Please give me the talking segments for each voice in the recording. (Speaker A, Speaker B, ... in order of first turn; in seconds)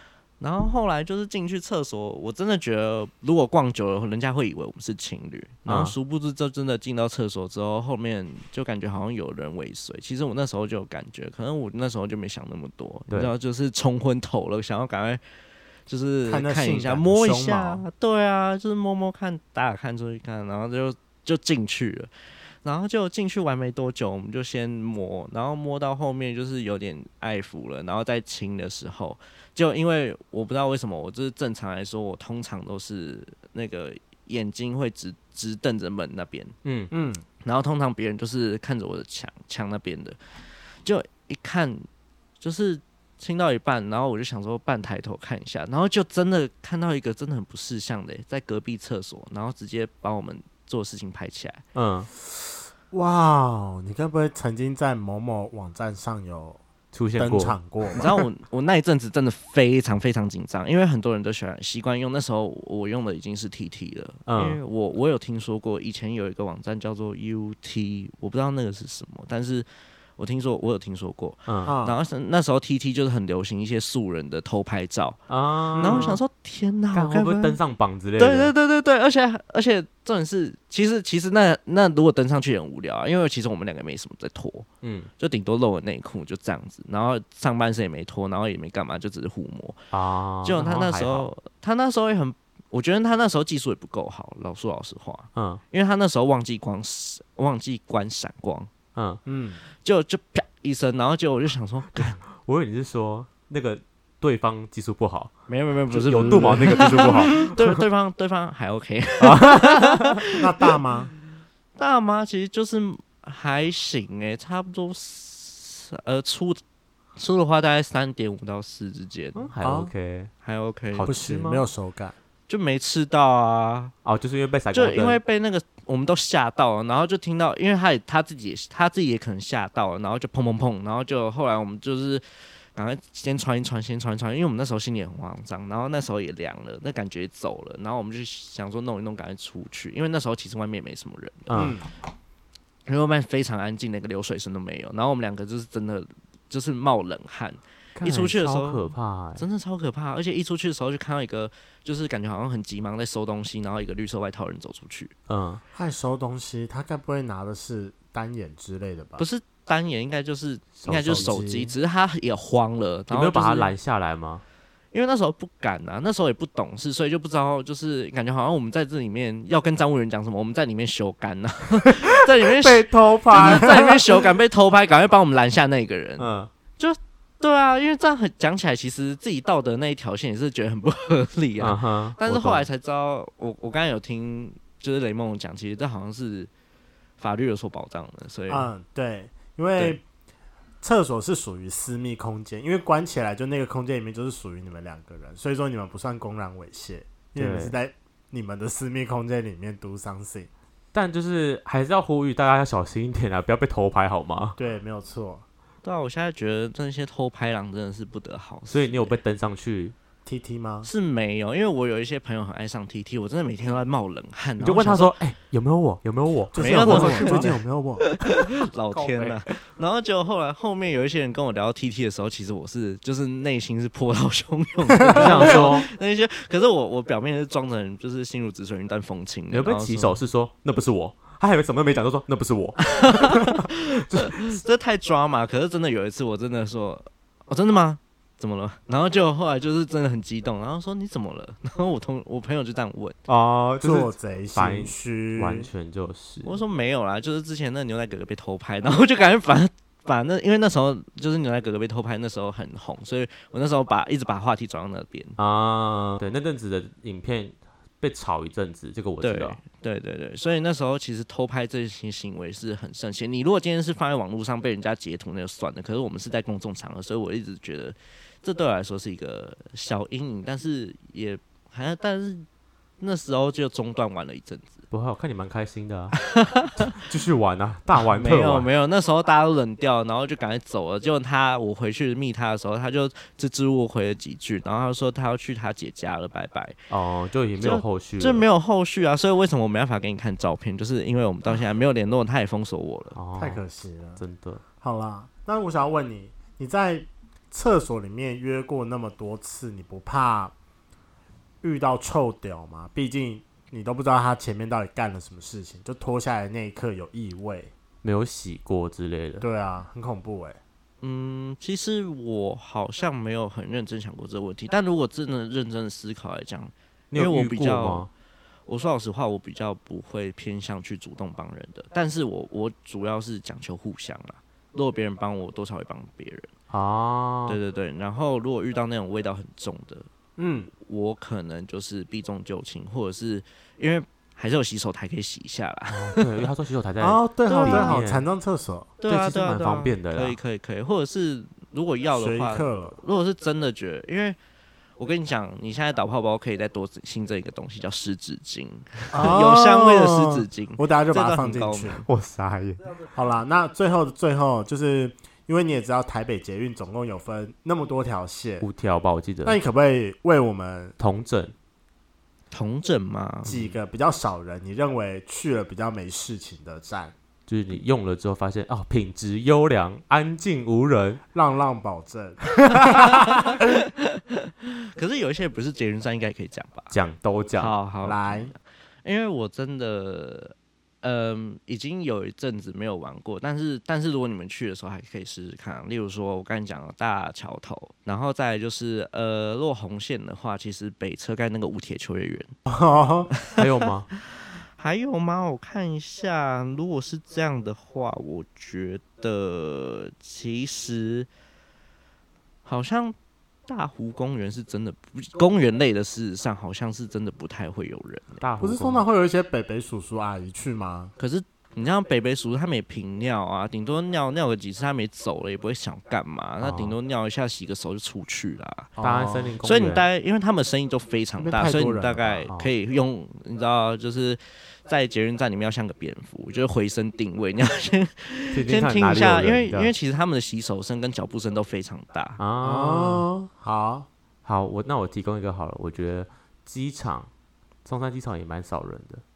Speaker A: 0.4-15.2, 15.9-22.1, 22.6-36.5, 37.4-40.2, 40.8-41.9, 42.4-51.6, 57.9-75.2, 75.8-77.6, 78.2-84.7, 85.2-89.8, 90.4-98.7, 99.8-102.2, 105.5-110.7, 111.8-116.6, 117.2-119.5, 120.4-121.1, 122.5-123.9, 124.7-132.2, 132.7-141.7, 142.9-148.8, 149.4-155.1, 159.2-163.7, 164.9-186.5, 187.2-188.7, 205.8-209.2, 210.8-215.1, 216.5-230.2, 232.8-243.2, 246.4-255.4, 259.2-272.4, 273.0-274.8, 276.2-277.0, 278.1-286.8, 287.6-293.2, 311.0-318.1, 318.7-326.5, 327.5-330.1, 330.8-336.3, 337.5-338.0, 339.0-344.4, 345.0-352.1, 362.5-363.6, 372.8-376.9, 377.6-392.5, 393.4-401.3, 402.6-403.1, 403.7-408.4, 411.2-418.9, 419.6-432.4
Speaker B: 5.7-5.9, 36.6-36.9, 51.7-52.1, 56.9-57.6, 64.3-64.6, 71.5-71.7, 75.3-76.2, 76.9-78.5, 84.8-85.1, 89.9-91.3, 95.3-95.6, 98.9-99.2, 101.9-105.3, 105.9-107.8, 109.2-110.2, 119.3-120.3, 120.9-121.7, 124.0-125.2, 141.5-141.8, 147.9-149.4, 155.3-155.6, 160.8-161.3, 163.1-164.4, 172.4-174.0, 176.2-176.5, 181.6-182.7, 197.3-197.8, 200.9-204.6, 208.7-209.9, 214.6-217.6, 218.9-219.4, 225.1-225.9, 229.5-234.6, 243.3-246.6, 255.4-259.6, 274.9-276.2, 276.8-278.7, 286.9-288.4, 293.1-293.6, 294.2-294.6, 308.0-309.4, 317.1-318.1, 326.7-327.6, 335.9-338.2, 339.1-340.4, 352.1-352.8, 358.6-359.6, 361.0-361.5, 367.5-371.2, 376.9-377.7, 393.6-394.1, 408.4-409.1, 416.6-417.0, 419.0-420.1, 428.5-429.9, 432.4-433.3, 434.4-437.3, 437.8-439.2
Speaker C: 16.2-17.8, 36.9-37.2, 52.9-56.6, 57.2-58.1, 71.6-72.0, 75.8-76.2, 99.2-99.6, 106.2-107.4, 110.3-111.1, 119.6-119.9, 121.0-122.1, 141.5-141.9, 155.7-159.2, 161.0-161.7, 173.2-174.0, 188.5-190.0, 190.8-200.5, 204.6-205.4, 210.2-210.9, 216.5-218.1, 225.0-225.6, 243.8-245.7, 293.4-294.2, 294.8-300.5, 301.6-307.7, 309.4-310.6, 330.4-330.7, 337.0-338.9, 342.1-343.0, 349.1-352.0, 353.1-358.7, 359.4-360.9, 363.4-367.1, 371.3-373.6, 378.0-378.5, 392.7-393.3, 408.6-411.1, 419.0-419.6, 421.4-422.5, 432.6-434.1